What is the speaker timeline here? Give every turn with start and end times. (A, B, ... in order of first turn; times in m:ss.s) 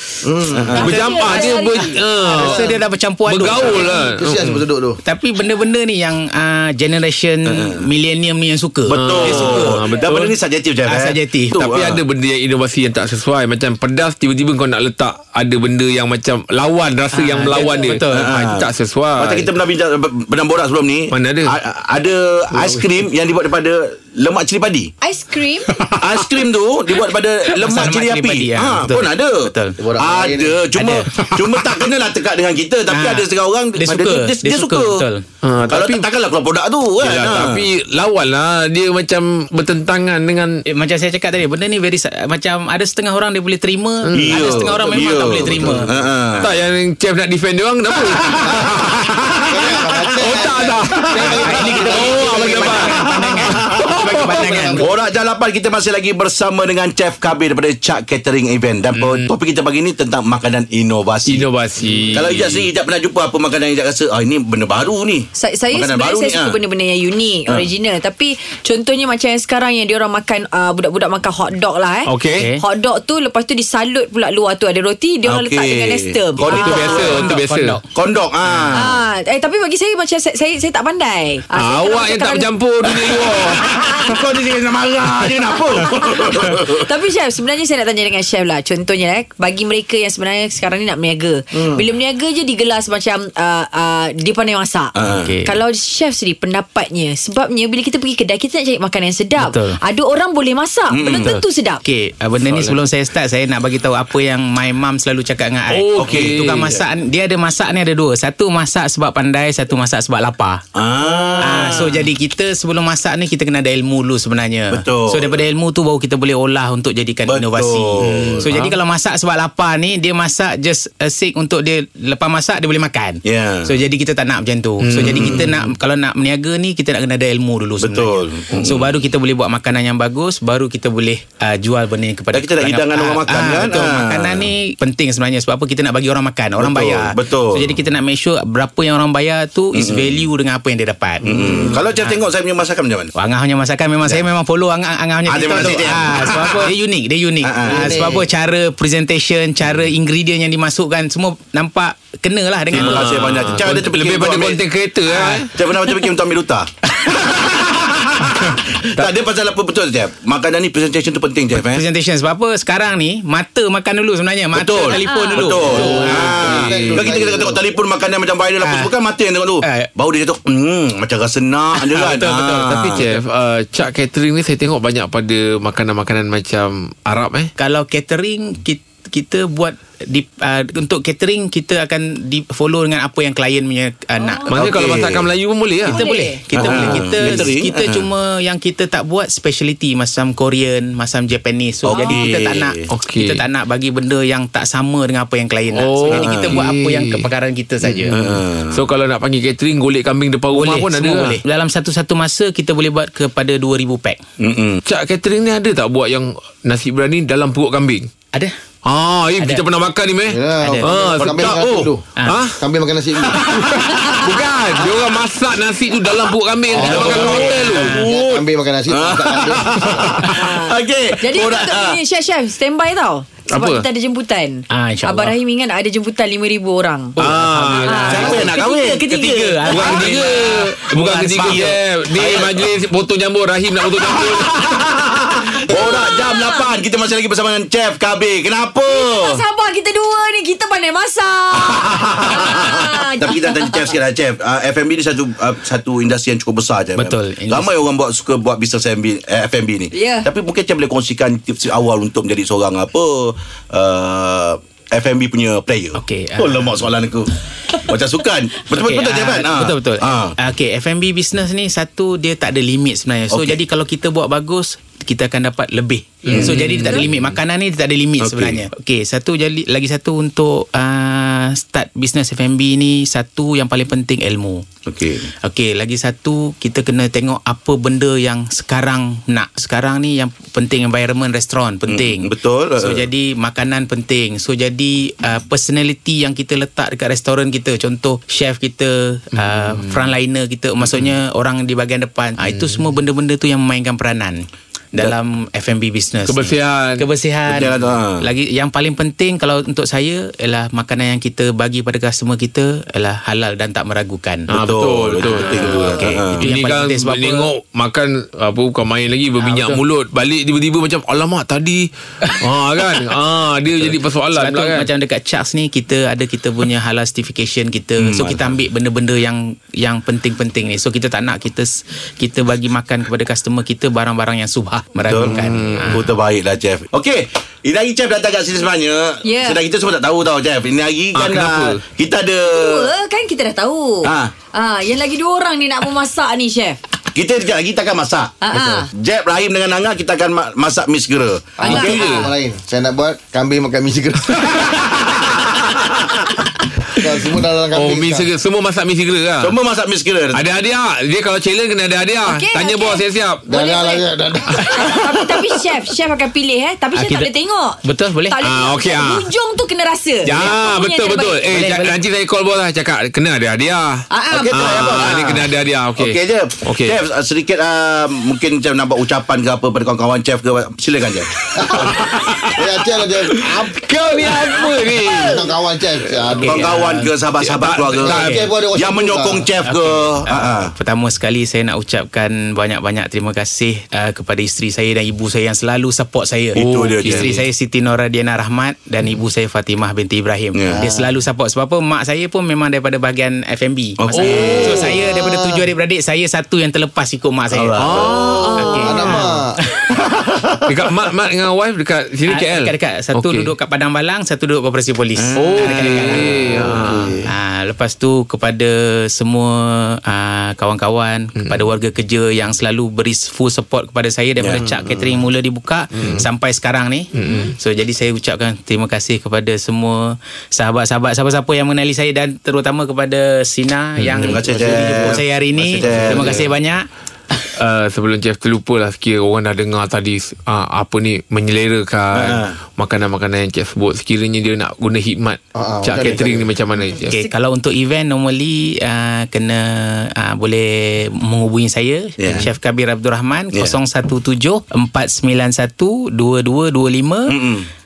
0:00.2-0:00.7 A
0:00.5-0:00.9 B
0:00.7-0:02.7 C
0:00.8-0:04.7 D
0:01.0-0:03.9 E
0:03.7-0:04.0 C
0:04.0-0:05.0 A
0:05.0-0:09.8 E
0:07.5-0:07.8 B
0:08.9-0:12.0 B
0:08.9-0:10.3 D
0:10.8-0:11.6 E
0:11.5-0:19.5 D
0:17.1-0:18.3 E
0:18.1-0:24.9 B
0:21.1-0:21.5 D
0:25.0-0:25.7 C
0:26.0-0:35.0 B
0:27.5-0:29.8 E
0:29.8-0:30.6 A
0:30.7-0:31.3 E
0:32.9-0:35.2 E
0:35.4-0:36.0 D
0:35.7-0:37.6 B
0:37.0-0:40.6 D
0:40.6-0:45.9 E
0:44.0-0:44.6 D
0:44.1-0:46.5 B
0:46.4-0:54.7 D
0:48.3-0:48.8 A
0:49.4-0:52.9 A
0:51.1-0:54.9 E
0:53.0-0:53.5 B
0:54.3-0:54.8 A
0:54.8-1:01.5 B
0:58.9-0:59.3 D
1:01.3-1:02.7 D
1:02.1-1:06.6 B
1:05.3-1:17.2 C
1:12.0-1:12.5 D
1:12.3-1:12.6 E
1:15.2-1:17.2 B
1:16.4-1:17.8 E
1:16.5-1:17.8 D
1:17.9-1:19.0 B
1:18.4-1:18.8 E
1:18.7-1:22.5 C
1:21.6-1:23.6 D
1:23.3-1:26.9 B
1:23.7-1:24.1 C
1:25.4-1:41.8 C
1:31.5-1:31.8 B
1:35.0-1:35.3 B
1:35.0-1:35.5 E
1:39.4-1:39.8 E
1:40.9-1:41.3 B
1:41.2-1:50.6 E
1:42.4-1:42.8 D
1:45.7-1:46.8 D
1:46.0-1:46.5 B
1:50.7-1:52.0 B
1:51.4-2:22.2 E
1:54.7-1:55.4 B
1:57.2-1:58.5 B
1:58.0-1:58.8 D
2:03.2-2:03.7 B
2:04.8-2:05.7 D
2:05.0-2:05.5 B
2:07.8-2:09.0 B
2:12.3-2:14.5 B
2:16.6-2:17.7 B
2:19.7-2:20.2 B
2:21.2-2:23.1 B
2:23.1-2:33.2 E
2:25.3-2:26.7 B
2:27.4-2:28.1 B
2:27.7-2:28.2 A
2:32.7-2:34.6 B
2:32.7-2:35.5 D
2:35.1-2:35.5 E
2:35.5-2:41.8 B
2:41.5-2:46.7 E
2:44.5-2:53.1 B
2:45.0-2:45.5 C
2:45.6-2:47.6 A
2:46.4-2:47.1 D
2:48.6-2:48.9 E
2:49.6-2:49.9 E
2:51.7-2:53.0 E
2:52.6-2:57.5 D
2:57.6-3:04.5 E
3:04.2-3:04.5 C
3:04.5-3:05.3 B
3:04.5-3:06.1 D
3:05.8-3:18.2 E
3:05.9-3:07.4 C
3:06.5-3:08.1 B
3:11.8-3:12.9 B
3:11.9-3:12.3 C
3:12.9-3:13.4 D
3:15.7-3:17.3 D
3:16.1-3:16.6 B
3:17.8-3:21.4 D
3:18.1-3:18.8 B
3:20.5-3:24.2 E
3:24.4-3:24.8 B
3:24.8-3:28.1 D
3:28.8-3:32.6 D
3:29.4-3:29.6 E
3:30.3-3:32.0 A
3:30.6-3:31.1 E
3:31.2-3:31.9 B
3:32.6-3:33.4 A
3:33.5-3:34.2 B
3:33.5-3:38.0 D
3:36.7-3:37.3 A
3:36.7-3:42.0 B
3:36.8-3:38.0 E
3:37.9-3:40.2 A
3:40.2-3:47.2 C
3:43.5-3:43.8 D
3:44.7-3:45.3 E
3:47.2-3:51.7 E
3:47.2-3:48.3 D
3:47.8-3:49.8 C
3:48.1-3:50.2 B
3:49.7-3:54.7 D
3:51.3-3:52.7 B
3:53.9-3:59.4 B
3:55.7-3:56.7 C
3:58.9-4:03.9 C
4:01.5-4:20.3 B
4:07.0-4:07.8 E
4:09.9-4:10.3 C
4:15.9-4:16.9 E
4:18.6-4:34.6 E
4:23.3-4:23.6 B
4:26.2-4:27.2 D
4:26.3-4:26.7 B
4:28.2-4:28.6 B
4:34.8-4:35.2 B
4:35.3-5:04.5 E
4:41.9-4:43.0 B
4:49.4-4:50.1 D
4:52.4-4:52.8 D
4:56.2-4:57.0 D
4:57.5-4:58.2 B
5:04.5-5:14.9 D
5:04.5-5:06.4 B
5:05.2-5:07.5 E
5:09.4-5:09.8 E
5:13.8-5:26.1 E
5:18.0-5:18.4 B
5:25.0-5:25.4 B
5:25.0-5:26.0 D
5:25.9-5:32.9 B
5:29.2-5:29.6 C
5:31.1-5:31.8 D
5:32.4-5:36.8 C
5:34.0-5:34.3 B
5:37.1-5:38.3 B
5:38.4-5:38.9 C
5:38.9-5:42.3 B
5:41.6-5:44.7 A
5:41.6-5:42.3 C
5:44.9-5:46.1 B
5:47.0-5:48.3 A
5:47.7-5:49.6 D
5:49.4-5:50.4 B
5:50.3-5:53.4 D
5:52.2-6:01.6 C
5:53.5-5:55.0 A
5:56.9-5:57.3 E
5:57.8-5:58.4 E
5:58.4-5:59.3 D
6:00.2-6:07.0 D
6:01.5-6:01.9 E
6:04.1-6:04.8 C
6:04.3-6:11.3 B
6:11.5-6:13.8 A
6:11.6-6:15.5 D
6:15.0-6:16.7 A
6:16.3-6:18.5 E
6:16.4-6:18.2 B
6:17.5-6:18.3 D
6:18.0-6:19.5 A
6:18.7-6:20.7 B
6:19.6-6:39.9 E
6:26.5-6:27.4 B
6:26.5-6:27.3 D
6:30.5-6:30.9 B
6:34.0-6:34.9 B
6:34.1-6:35.0 D
6:35.1-6:35.4 A
6:37.5-6:38.5 B
6:37.8-6:39.3 D
6:38.3-6:39.0 C
6:38.8-6:39.5 A
6:40.2-6:40.7 B
6:40.7-6:43.5 D
6:42.3-6:46.4 E
6:45.2-6:46.2 B
6:45.3-6:47.2 D
6:46.6-6:47.2 A
6:47.2-7:06.9 E
6:51.4-6:51.6 D
6:57.2-6:57.5 D
7:04.0-7:04.4 D
7:04.1-7:06.5 B
7:05.8-7:06.5 D
7:07.6-7:17.2 D
7:12.1-7:12.6 B
7:15.5-7:16.5 A
7:17.0-7:27.4 E
7:22.2-7:22.5 B
7:27.3-7:27.7 B